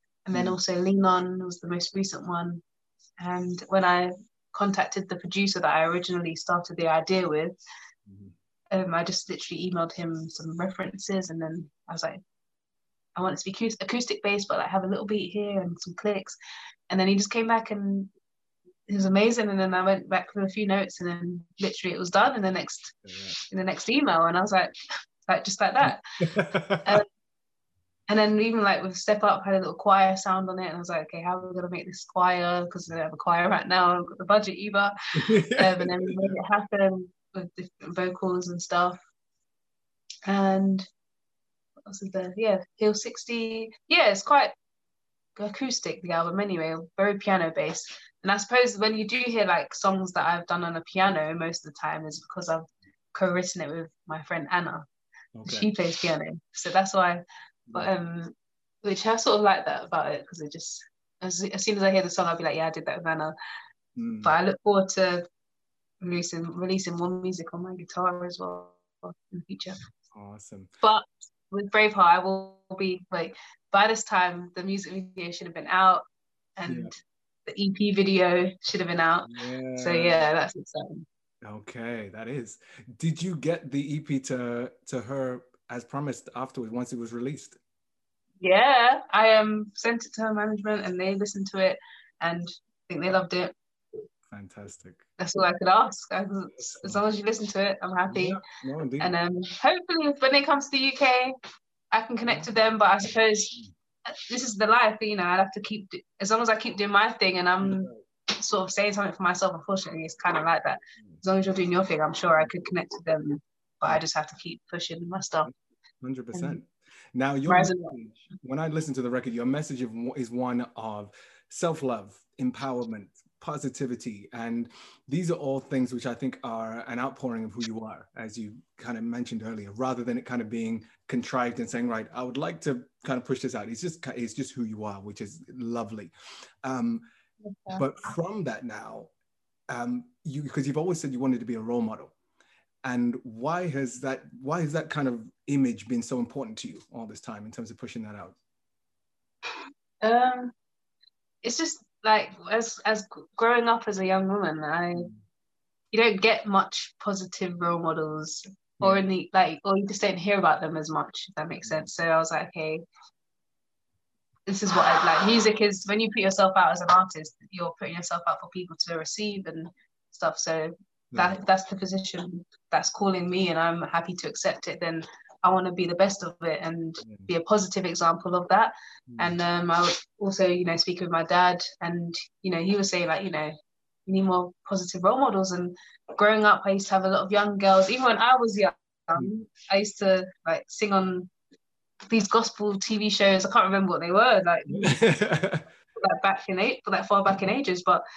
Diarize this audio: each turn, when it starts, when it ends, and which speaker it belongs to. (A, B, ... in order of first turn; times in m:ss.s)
0:00.2-0:02.6 A
0:03.2-0:07.6 A
0:08.1-0:08.3 B
0:08.7-0:12.2 A
0:13.2-0:16.4 A
0:16.9-0:18.1 A
0:18.9-0:24.7 A
0:23.0-0:23.4 B
0:25.3-0:26.0 A
0:25.9-0:27.0 B
0:28.1-0:34.9 A
0:35.2-0:36.3 B
0:35.5-0:39.0 A
0:40.3-0:40.9 A
0:41.9-0:44.5 A
0:45.4-0:54.8 A
0:55.4-0:55.7 B
0:55.5-0:57.2 A
0:57.7-0:58.3 A
0:58.8-1:03.3 A
1:04.0-1:04.3 B
1:04.2-1:05.2 A
1:06.0-1:09.8 A
1:10.1-1:10.7 B
1:10.8-1:16.0 A
1:16.6-1:16.9 A
1:16.6-1:16.9 B
1:17.5-1:21.0 A
1:19.2-1:20.2 B
1:21.4-1:27.6 B
1:28.4-1:33.5 A
1:34.3-1:35.0 B
1:35.2-1:38.4 A
1:36.8-1:37.0 B
1:38.1-1:39.1 B
1:39.0-1:41.3 A
1:41.9-1:43.6 A
1:44.1-1:55.5 A
1:47.6-1:48.0 B
1:55.4-2:16.1 B
1:56.3-1:56.6 A
1:57.5-1:57.9 A
2:16.6-2:17.0 B
2:17.4-2:17.8 A
2:17.8-2:19.1 B
2:19.7-2:22.1 B
2:22.8-2:28.4 B
2:30.0-2:30.5 A
2:31.4-2:35.1 A
2:35.9-2:42.8 A
2:44.5-3:03.5 A
2:51.1-2:51.4 B
2:57.0-2:57.3 B
2:59.1-2:59.4 B
3:04.1-3:11.3 A
3:12.1-3:15.0 A
3:14.7-3:15.6 B
3:16.0-3:18.0 A